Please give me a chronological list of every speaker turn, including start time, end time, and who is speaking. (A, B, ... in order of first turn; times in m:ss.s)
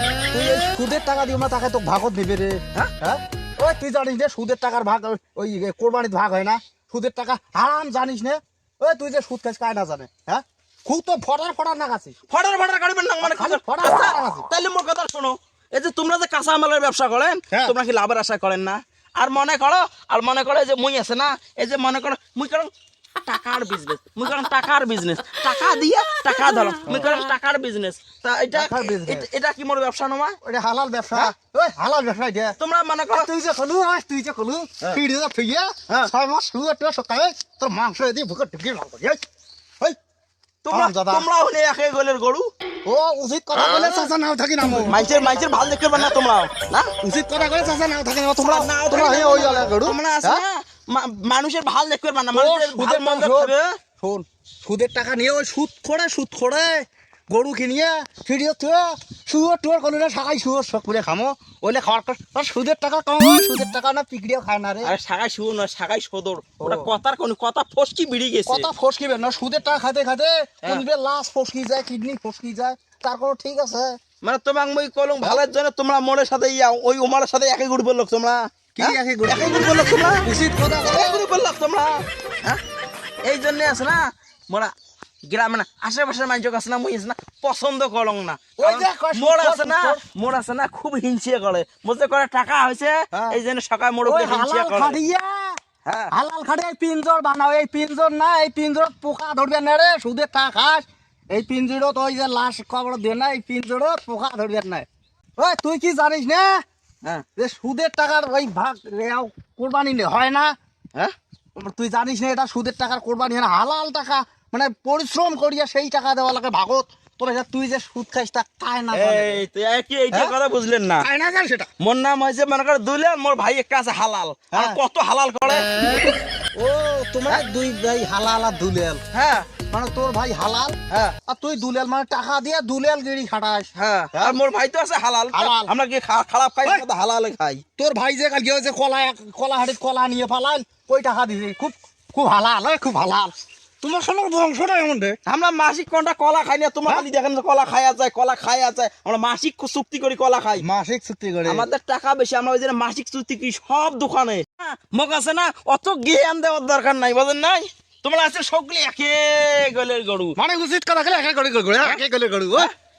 0:00.3-0:12.1 A
0:12.3-0:30.4 B
0:13.2-0:14.5 A
0:26.8-0:27.2 A
0:28.5-0:29.3 A
0:30.4-0:32.6 A
0:32.6-0:33.3 B
0:33.1-0:39.2 A
0:40.6-0:42.5 B
0:40.7-0:41.3 A
0:42.8-0:45.4 A
0:43.6-0:44.1 B
0:44.7-0:46.9 B
0:47.0-0:50.4 A
0:48.4-0:53.8 B
0:52.3-1:04.9 A
1:04.8-1:08.7 B
1:06.6-1:06.9 A
1:08.5-1:14.0 A
1:14.2-1:20.3 B
1:18.8-1:21.3 A
1:20.8-1:22.6 B
1:23.3-1:24.7 B
1:25.3-1:35.0 B
1:28.6-1:30.0 A
1:33.1-1:33.4 A
1:34.0-1:35.6 A
1:35.8-1:36.1 B
1:36.1-1:44.9 A
1:45.4-1:46.6 A
1:47.4-1:50.5 A
1:51.6-1:59.4 A
1:58.9-2:01.1 B
2:01.0-2:01.7 A
2:01.8-2:05.7 B
2:04.5-2:04.8 A
2:06.6-2:09.0 A
2:09.1-2:09.5 B
2:09.7-2:14.4 A
2:13.8-2:17.6 B
2:15.3-2:15.7 A
2:17.8-2:25.2 A
2:25.3-2:30.6 B
2:30.6-2:31.7 A
2:31.5-2:40.4 B
2:40.4-2:42.7 A
2:41.8-2:42.7 B